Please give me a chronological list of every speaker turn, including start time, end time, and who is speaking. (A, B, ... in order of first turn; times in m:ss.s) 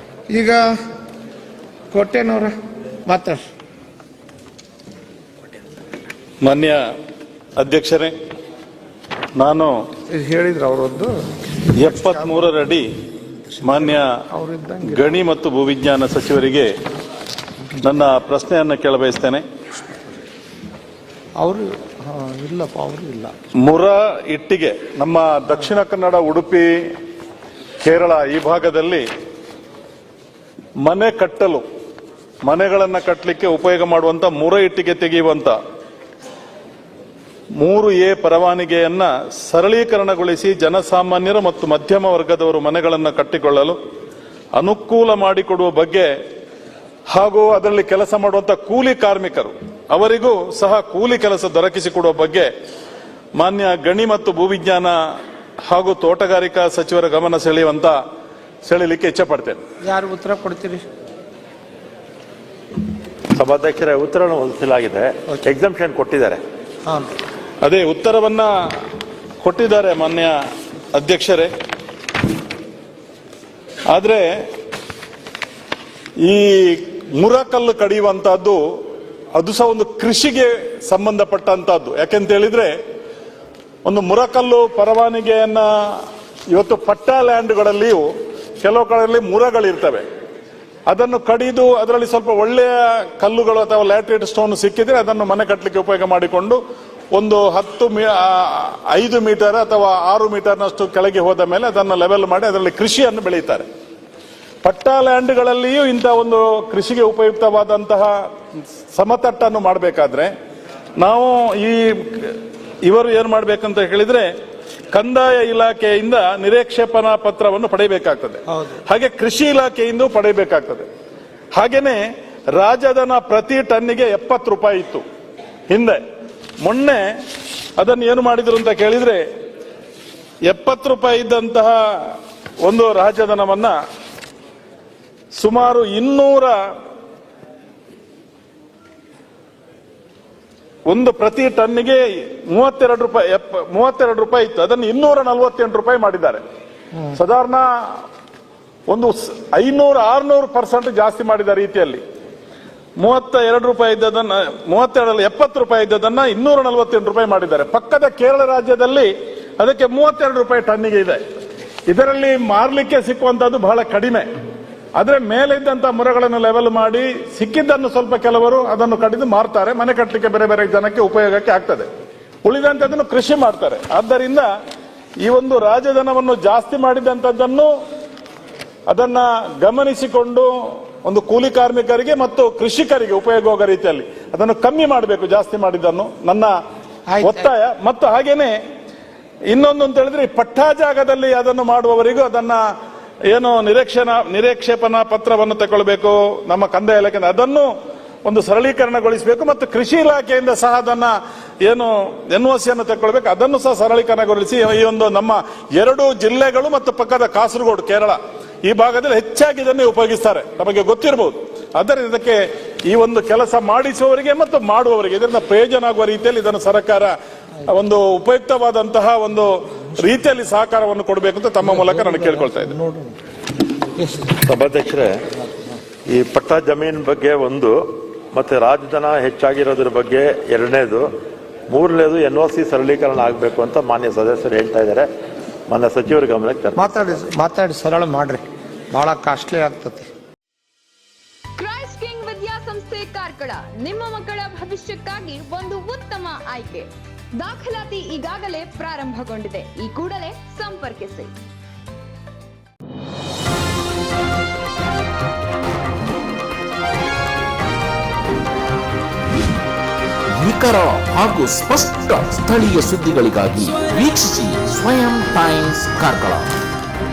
0:00.3-0:00.6 A
0:01.9-0:02.5 A
0:03.1-0:03.4 A
0:06.4-0:06.8 B
0:07.6-0:08.1 B
0:09.4-0:09.7 B
0:10.1-0:11.2 A
0:11.8-0:12.4 A
0:11.8-0:12.9 B
0:13.6-0:14.1 B
0:13.7-0:15.1 A
0:14.8-0:16.7 B
0:17.8-0:19.4 B
0:21.4-0:23.3 A
0:23.6-0:26.7 B
0:27.8-0:29.0 B
0:30.8-0:31.6 B
0:32.5-0:35.6 B
0:37.6-0:43.8 B
0:44.6-0:46.1 B
0:47.1-0:52.5 B
0:53.4-0:54.9 B
0:55.7-0:58.0 B
0:58.6-0:59.6 B
0:59.8-1:00.8 A
1:03.4-1:06.4 C
1:07.6-1:08.5 B
1:09.4-1:10.4 B
1:10.9-1:11.5 B
1:13.9-1:14.2 B
1:16.2-1:18.6 B
1:19.4-1:22.7 B
1:23.9-1:28.1 B
1:28.6-1:30.0 B
1:30.9-1:36.6 B
1:37.1-1:43.6 B
1:44.6-1:48.1 B
1:48.9-1:50.3 B
1:51.0-1:54.3 B
1:54.9-2:00.9 B
1:58.5-1:58.8 A
2:01.6-2:02.0 B
2:02.6-2:05.0 B
2:05.7-2:06.0 B
2:06.6-2:07.0 B
2:07.8-2:09.2 B
2:10.5-2:13.8 B
2:15.4-2:16.5 B
2:20.9-2:26.4 B
2:27.1-2:27.7 B
2:28.9-2:32.0 B
2:33.0-2:41.2 B
2:41.9-2:44.3 B
2:45.0-2:51.9 B
2:52.4-2:54.5 B
2:55.2-2:57.7 B
2:58.9-3:06.5 B
3:07.1-3:07.5 A
3:07.2-3:08.5 B
3:09.5-3:12.6 B
3:13.3-3:17.7 B
3:18.2-3:37.1 B
3:37.7-3:42.8 B
3:41.6-3:43.2 A
3:44.0-3:44.4 A
3:44.4-3:45.2 C
3:46.1-3:47.8 C
3:48.3-3:51.0 C
3:51.7-3:55.1 C
3:55.7-3:57.2 C
3:56.8-3:58.4 A
3:58.9-4:00.1 A
4:01.6-4:06.9 D
4:07.4-4:11.3 D
4:20.4-4:26.6 E